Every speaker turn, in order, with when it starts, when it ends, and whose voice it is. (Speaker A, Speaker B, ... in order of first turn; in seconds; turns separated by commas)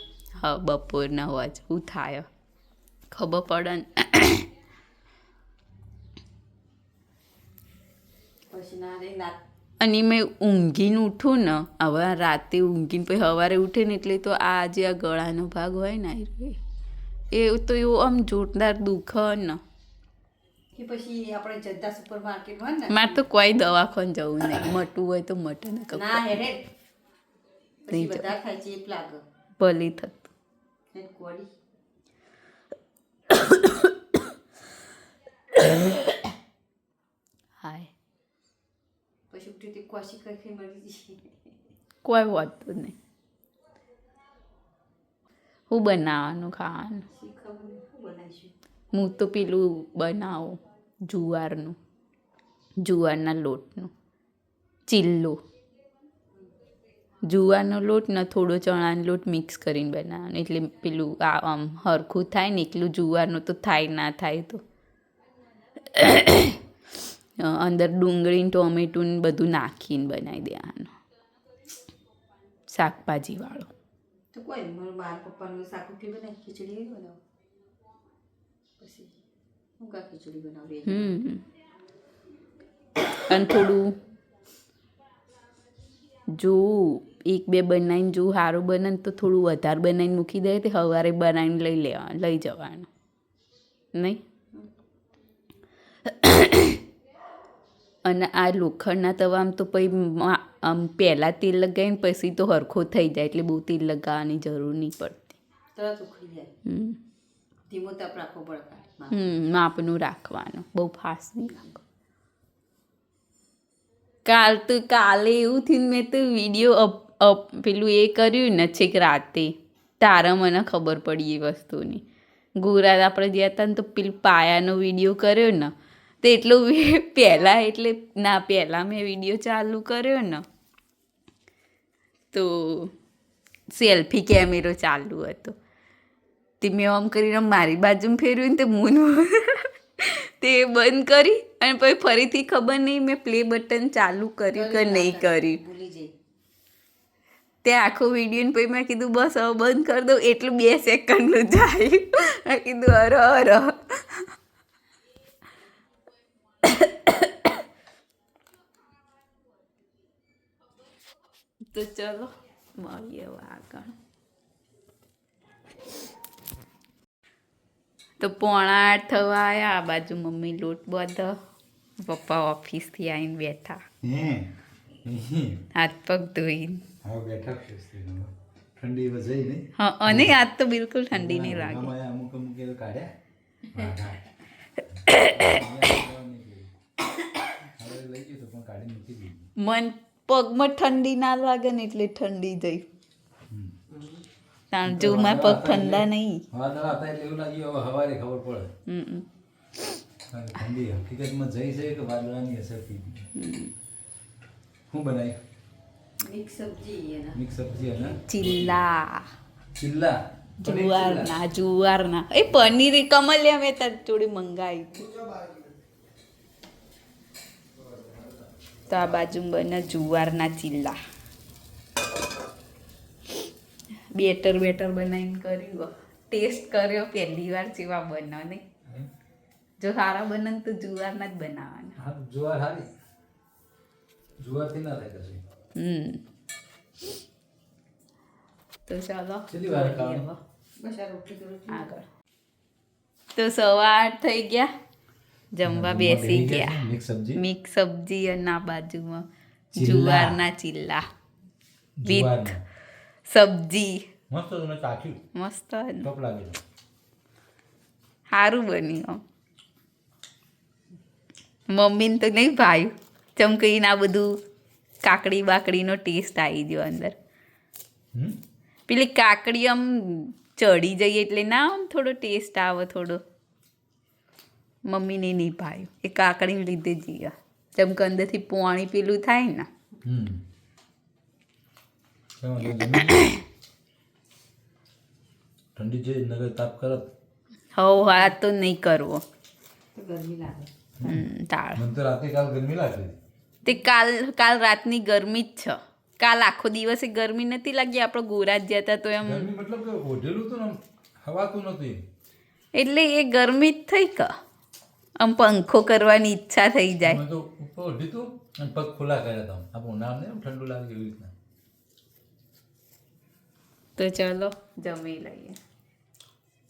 Speaker A: 0.4-2.3, Speaker A: 3.1-4.5, Speaker B: 8.5-9.4, Speaker A: 9.8-16.6, Speaker A: 17.3-19.6, Speaker B: 20.7-23.2, Speaker A: 22.9-26.4, Speaker B: 25.9-26.7, Speaker B: 27.8-29.2, Speaker A: 27.9-28.3, Speaker A: 29.6-30.3, Speaker B: 30.9-31.5, Speaker A: 35.6-36.0, Speaker A: 37.6-37.9, Speaker B: 39.3-41.3, Speaker A: 42.0-42.9, Speaker A: 45.7-47.0, Speaker B: 47.1-48.5, Speaker A: 48.9-51.8, Speaker A: 52.8-53.9, Speaker A: 54.9-55.4, Speaker A: 57.3-64.6, Speaker A: 65.8-66.6, Speaker A: 67.4-70.9, Speaker A: 72.7-73.7, Speaker B: 74.3-77.2, Speaker B: 78.8-79.1, Speaker B: 79.8-81.1, Speaker A: 80.8-81.4, Speaker A: 83.3-83.9, Speaker A: 86.3-92.9, Speaker A: 93.9-94.2, Speaker A: 96.0-96.8, Speaker A: 98.0-105.4, Speaker B: 105.8-106.5, Speaker A: 106.6-107.0, Speaker B: 107.7-109.2, Speaker A: 109.1-111.8, Speaker A: 114.2-122.0, Speaker A: 122.6-130.4, Speaker A: 132.3-132.9, Speaker A: 133.7-135.6, Speaker A: 136.6-145.6, Speaker B: 144.5-146.1, Speaker A: 147.6-154.3, Speaker A: 156.6-157.5, Speaker A: 161.7-163.9, Speaker A: 168.2-171.4, Speaker A: 172.0-173.8, Speaker C: 174.0-175.7, Speaker A: 175.7-176.8, Speaker C: 177.0-180.3, Speaker A: 179.8-181.9, Speaker C: 181.1-183.1, Speaker C: 183.7-184.3, Speaker C: 185.0-186.7, Speaker A: 185.1-185.4, Speaker C: 187.6-189.5, Speaker A: 189.6-192.9, Speaker C: 193.5-193.8, Speaker B: 193.9-194.2, Speaker A: 194.7-196.4, Speaker C: 194.8-198.7, Speaker A: 198.8-200.0, Speaker C: 200.3-203.3, Speaker A: 203.3-203.7, Speaker C: 204.9-205.4, Speaker B: 206.2-207.4, Speaker C: 207.3-208.8, Speaker A: 208.3-209.3, Speaker C: 209.8-211.4, Speaker A: 210.6-215.1, Speaker A: 218.9-221.0, Speaker A: 224.1-228.6, Speaker A: 229.8-232.0, Speaker C: 232.0-232.9, Speaker C: 234.4-235.4, Speaker A: 235.7-236.2, Speaker A: 238.9-240.4, Speaker C: 239.5-240.3, Speaker B: 240.8-241.9, Speaker A: 241.7-242.0, Speaker A: 243.3-244.7, Speaker A: 245.5-246.8, Speaker C: 245.6-247.4, Speaker A: 247.3-251.1, Speaker C: 249.7-250.4, Speaker C: 252.0-252.6, Speaker A: 252.0-252.6, Speaker A: 253.3-254.1, Speaker C: 254.3-255.2, Speaker A: 255.3-256.1, Speaker C: 256.0-256.6, Speaker A: 258.3-259.2, Speaker A: 261.7-264.3, Speaker A: 265.0-267.2, Speaker A: 268.9-273.2, Speaker A: 274.9-279.7, Speaker C: 280.0-280.4, Speaker C: 282.4-283.3, Speaker A: 282.8-283.4, Speaker C: 285.7-287.1, Speaker A: 287.8-289.2, Speaker B: 289.9-290.7, Speaker C: 291.0-293.2, Speaker A: 291.0-291.8, Speaker A: 293.6-299.5, Speaker C: 299.2-302.0, Speaker A: 302.7-304.3, Speaker A: 305.2-307.2, Speaker C: 307.0-311.3, Speaker A: 314.0-315.6